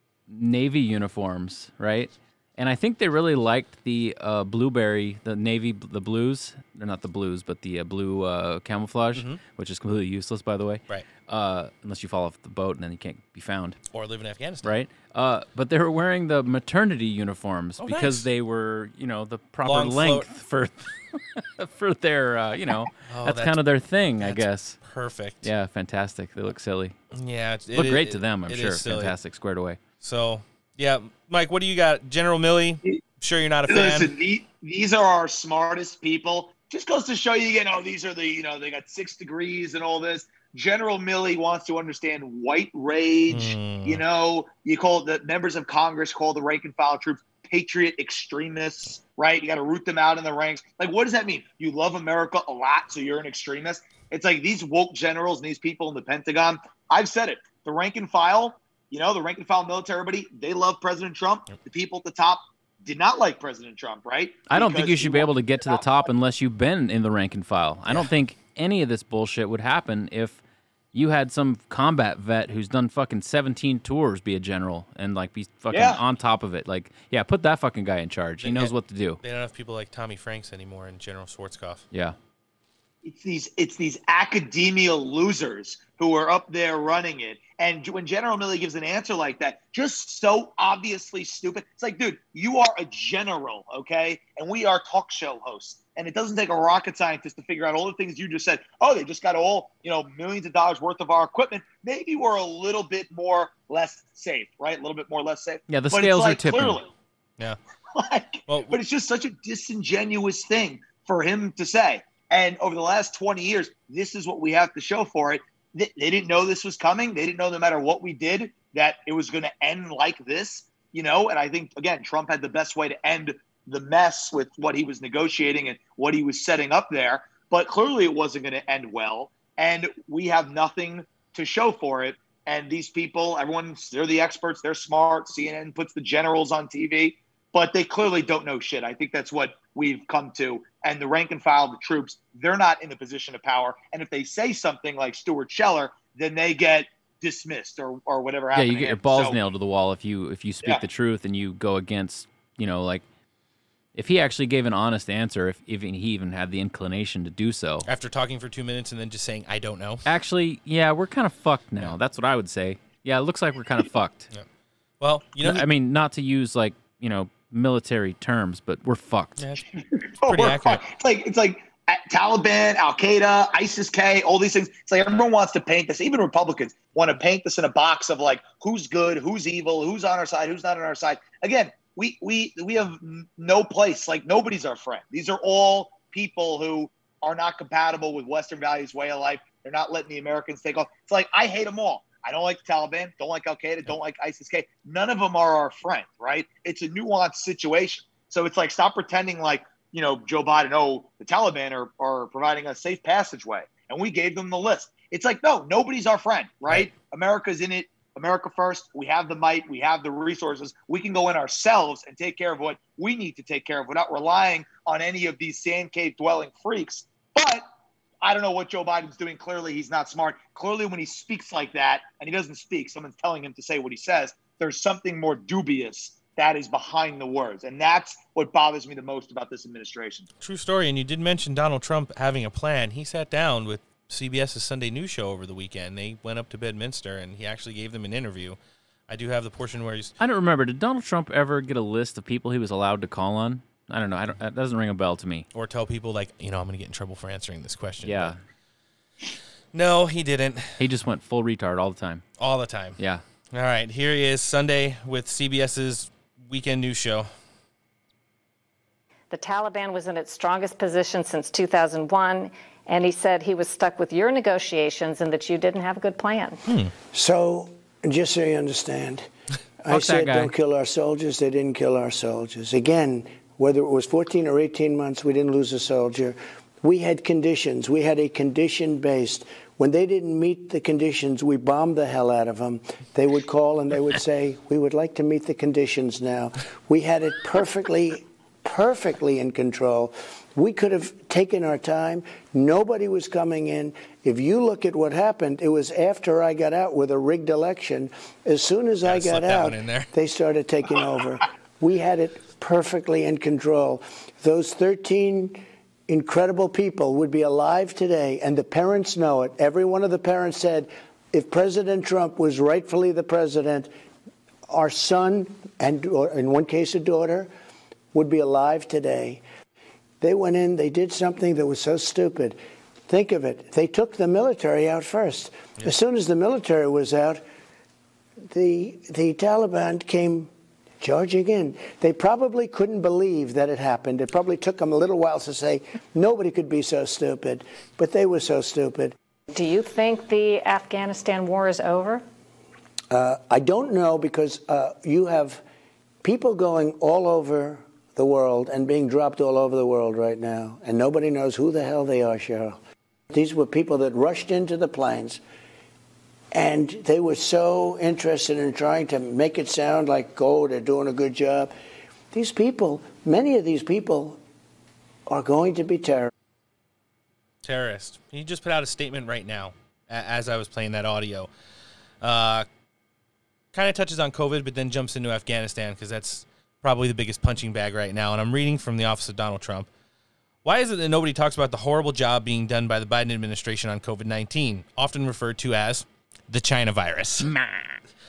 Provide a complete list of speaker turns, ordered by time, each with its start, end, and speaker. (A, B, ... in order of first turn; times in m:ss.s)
0:00.3-0:13.8 A
0:09.1-0:09.4 B
0:13.9-0:14.7 B
0:14.6-0:24.8 A
0:17.8-0:18.2 B
0:19.6-0:20.3 B
0:23.1-0:23.6 B
0:24.2-0:25.5 B
0:25.4-0:27.0 A
0:27.1-0:29.1 B
0:27.7-0:29.8 A
0:30.0-0:34.1 B
0:33.7-1:06.0 C
0:43.3-0:44.0 B
1:04.5-1:10.4 A
1:10.9-1:19.2 A
1:15.7-1:16.0 C
1:18.4-1:21.8 B
1:21.9-1:22.2 A
1:23.0-1:46.9 C
1:45.7-1:46.8 A
1:47.9-2:29.4 C
1:48.5-1:48.8 B
2:28.5-2:33.0 A
2:33.9-2:37.9 A
2:37.8-2:40.0 B
2:40.0-2:44.3 A
2:45.0-2:45.6 B
2:45.4-2:49.4 A
2:49.4-2:49.6 B
2:50.0-3:37.6 C
2:50.2-2:50.8 B
3:38.2-3:50.3 C
3:50.4-4:00.1 B
4:00.2-4:05.5 A
4:05.5-4:08.3 B
4:08.0-4:08.4 A
4:09.7-4:10.8 B
4:10.8-4:12.2 A
4:12.4-4:13.0 B
4:13.0-4:13.2 A
4:13.5-4:17.3 B
4:19.3-4:26.6 D
4:26.6-4:26.9 B
4:27.1-4:29.3 E
4:29.8-5:13.9 E
4:29.9-4:30.5 A
4:59.0-5:00.1 B
5:14.7-5:17.5 E
5:18.1-5:19.4 E
5:20.2-5:27.4 E
5:28.5-5:39.1 E
5:39.5-5:42.2 D
5:43.1-5:45.6 E
5:46.2-5:52.8 E
5:53.3-5:55.4 E
5:56.5-6:01.7 E
6:02.3-6:04.4 E
6:05.3-6:06.3 E
6:07.6-6:11.5 B
6:12.2-6:12.6 B
6:13.7-6:19.9 B
6:20.6-6:27.5 B
6:27.4-6:28.0 A